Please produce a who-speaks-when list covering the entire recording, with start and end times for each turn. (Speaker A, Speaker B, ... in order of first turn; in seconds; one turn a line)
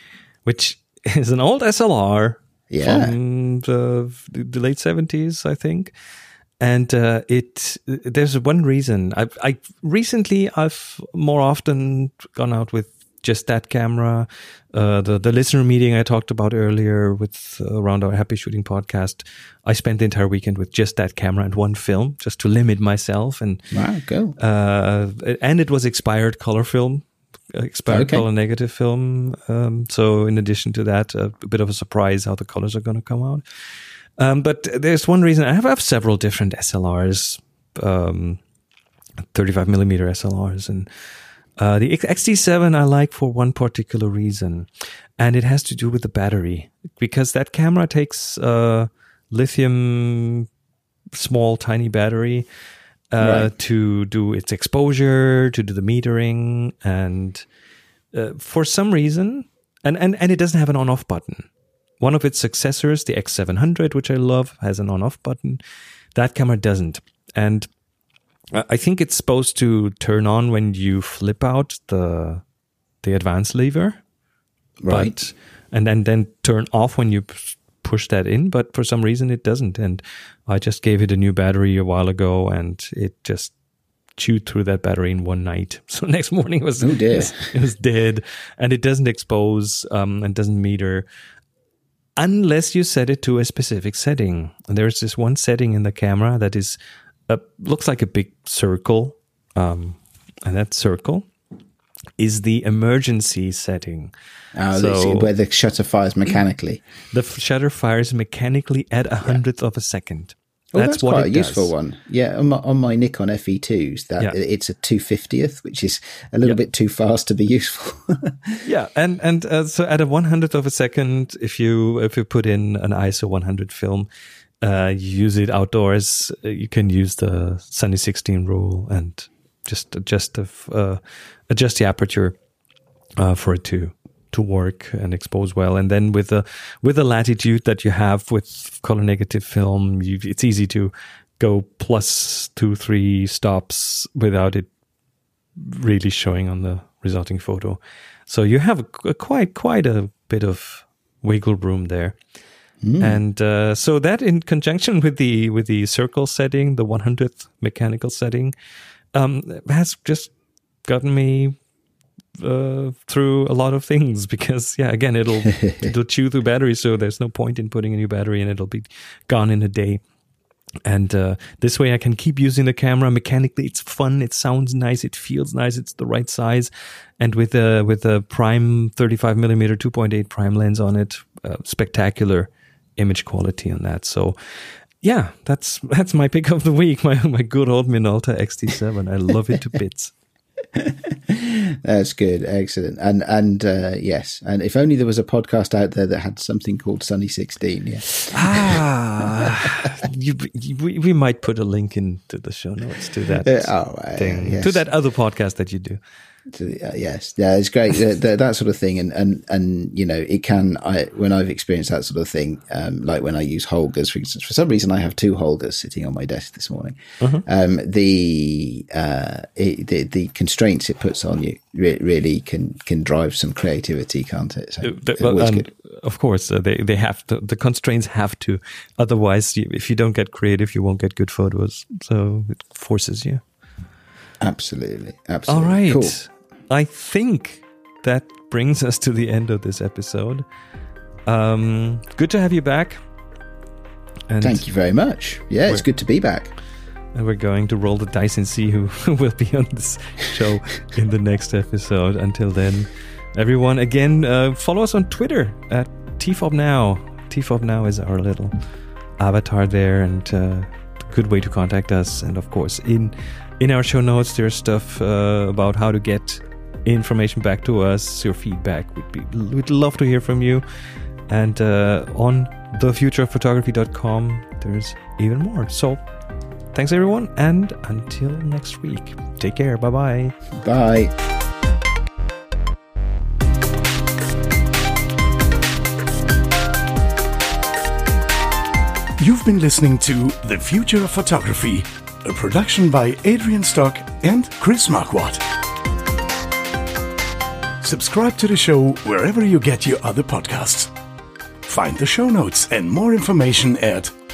Speaker A: 0.4-5.9
Speaker B: 2.7-3.1
Speaker A: 6.6-23.6
Speaker B: 23.7-24.4
Speaker A: 24.4-33.4
Speaker B: 27.9-28.2
Speaker A: 34.2-38.4
Speaker A: 39.3-40.9
Speaker A: 41.6-50.5
Speaker A: 51.1-52.5
Speaker A: 53.1-57.5
Speaker B: 53.2-53.5
Speaker A: 58.1-61.5
Speaker A: 62.0-65.6
Speaker A: 66.1-67.7
Speaker A: 68.5-72.4
Speaker A: 73.0-74.0
Speaker B: 74.8-75.1
Speaker A: 74.9-83.5
Speaker A: 84.2-91.0
Speaker B: 86.8-87.4
Speaker A: 92.2-96.8
Speaker A: 97.3-101.3
Speaker A: 102.2-104.1
Speaker B: 104.5-106.8
Speaker A: 104.7-105.3
Speaker A: 107.1-111.7
Speaker B: 110.7-118.6
Speaker A: 118.6-124.1
Speaker A: 124.6-132.3
Speaker A: 133.2-144.7
Speaker A: 145.6-152.2
Speaker B: 152.8-153.2
Speaker A: 153.0-158.5
Speaker A: 159.1-160.3
Speaker A: 160.8-161.6
Speaker A: 162.4-170.0
Speaker B: 165.6-165.8
Speaker A: 170.8-184.4
Speaker A: 185.0-190.1
Speaker B: 190.7-198.8
Speaker A: 198.3-206.0
Speaker B: 199.4-199.7
Speaker B: 203.4-204.8
Speaker B: 206.5-225.7
Speaker A: 224.8-233.4
Speaker B: 234.4-236.2
Speaker A: 235.5-240.4
Speaker A: 241.2-243.0
Speaker A: 244.3-244.7
Speaker B: 244.4-246.5
Speaker A: 247.1-258.6
Speaker A: 259.2-270.6
Speaker A: 271.3-276.0
Speaker A: 276.7-280.4
Speaker B: 280.5-281.1
Speaker C: 289.2-295.4
Speaker C: 297.8-300.9
Speaker C: 301.6-304.1